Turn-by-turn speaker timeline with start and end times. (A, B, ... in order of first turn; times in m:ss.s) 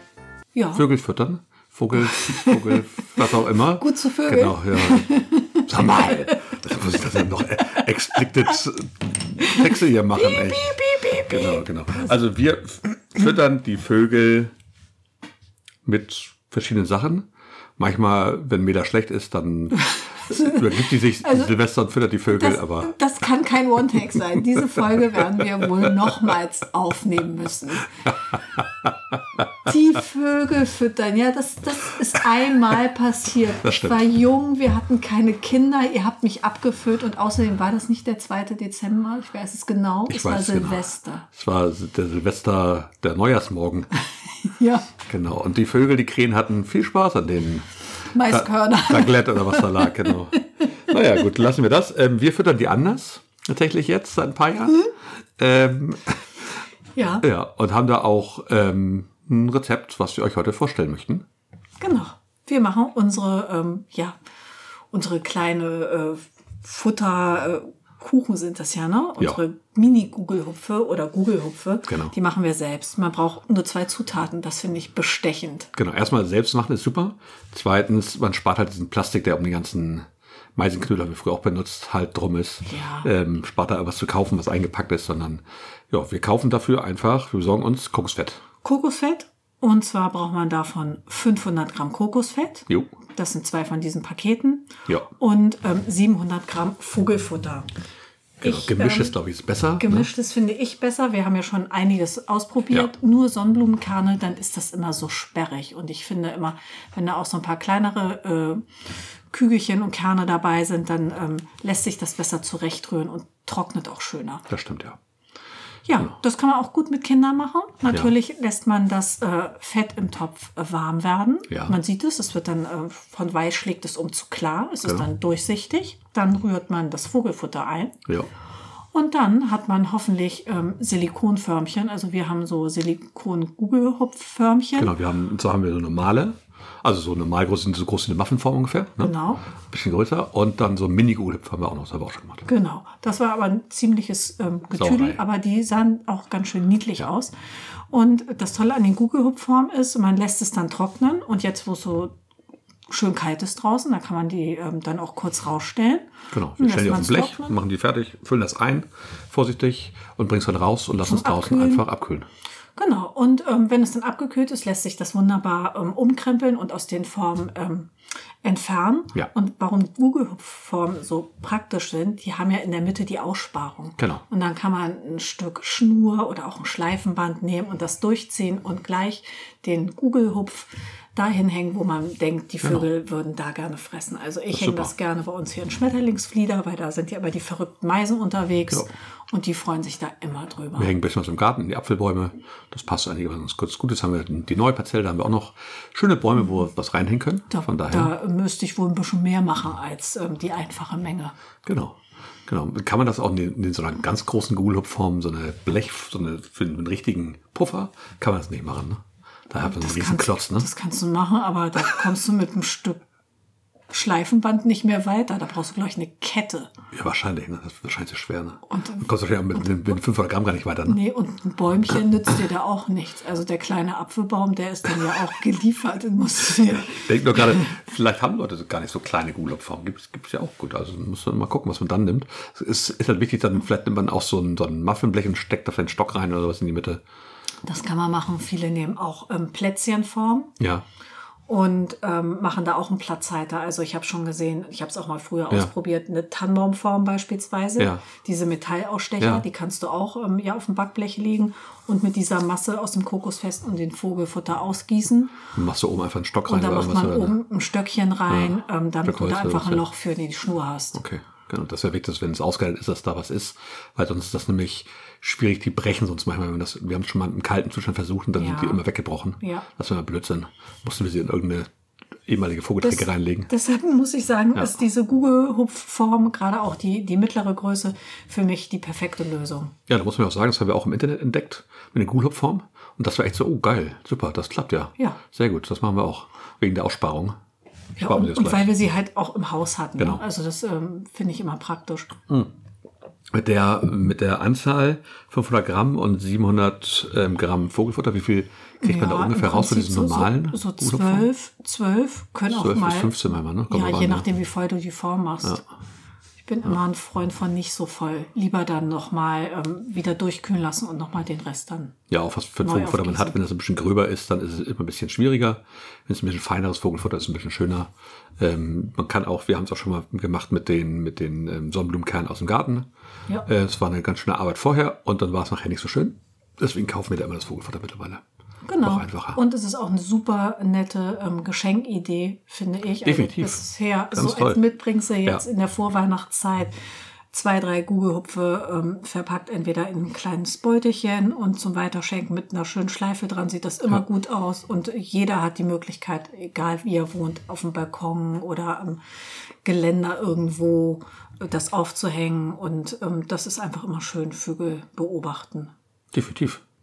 0:00.5-0:00.8 A
0:00.7-0:14.5 B
0:02.1-0:06.3 A
0:10.2-0:11.6 A
0:15.8-0:22.9 B
0:19.9-0:21.5 A
0:22.3-0:27.9 A
0:29.6-0:41.2 A
0:33.6-0:34.1 B
0:40.1-0:43.9 B
0:44.4-0:44.9 A
0:45.0-0:56.4 B
0:48.1-0:50.4 A
0:56.9-0:57.2 A
0:57.2-1:01.2 B
1:01.8-1:04.2 A
1:04.9-1:15.7 A
1:11.9-1:12.1 B
1:15.7-1:28.4 B
1:22.6-1:23.1 A
1:28.6-1:37.7 A
1:38.4-1:40.1 B
1:38.4-1:39.2 A
1:39.8-1:48.6 A
1:49.3-1:54.5 A
1:54.5-1:55.0 B
1:55.8-2:08.0 A
2:01.5-2:01.8 B
2:08.9-2:14.9 A
2:14.8-2:19.1 B
2:19.0-2:19.4 A
2:19.7-2:22.4 B
2:22.5-2:27.3 A
2:24.8-2:25.2 B
2:27.9-2:32.1 A
2:32.9-2:37.6 A
2:36.3-2:42.3 B
2:41.0-2:41.8 A
2:42.8-2:47.9 A
2:48.4-3:10.9 A
3:04.5-3:04.9 B
3:10.8-3:18.1 B
3:17.5-3:21.3 A
3:21.6-3:30.7 B
3:29.6-3:33.0 A
3:33.9-3:36.7 A
3:36.9-3:41.0 B
3:38.7-3:39.1 A
3:40.9-3:47.7 A
3:46.8-3:57.0 B
3:57.6-4:00.5 A
4:01.5-4:15.4 A
4:07.8-4:08.0 B
4:15.5-4:17.4 B
4:16.4-4:21.0 A
4:18.3-4:19.8 B
4:20.9-4:31.7 B
4:28.3-4:28.8 A
4:29.4-4:29.6 A
4:32.2-4:33.5 B
4:32.8-4:39.7 A
4:39.9-4:47.4 B
4:48.0-4:52.1 A
4:48.0-4:48.7 B
4:50.0-4:50.2 B
4:53.3-5:01.3 B
4:58.8-5:05.6 A
5:02.5-5:04.3 B
5:06.4-5:11.9 A
5:12.1-5:22.9 B
5:12.6-5:13.4 A
5:23.4-5:28.2 B
5:28.6-5:36.7 A
5:28.8-5:29.4 B
5:33.0-5:34.6 B
5:37.3-5:49.0 A
5:49.6-5:55.7 A
5:56.1-5:56.6 B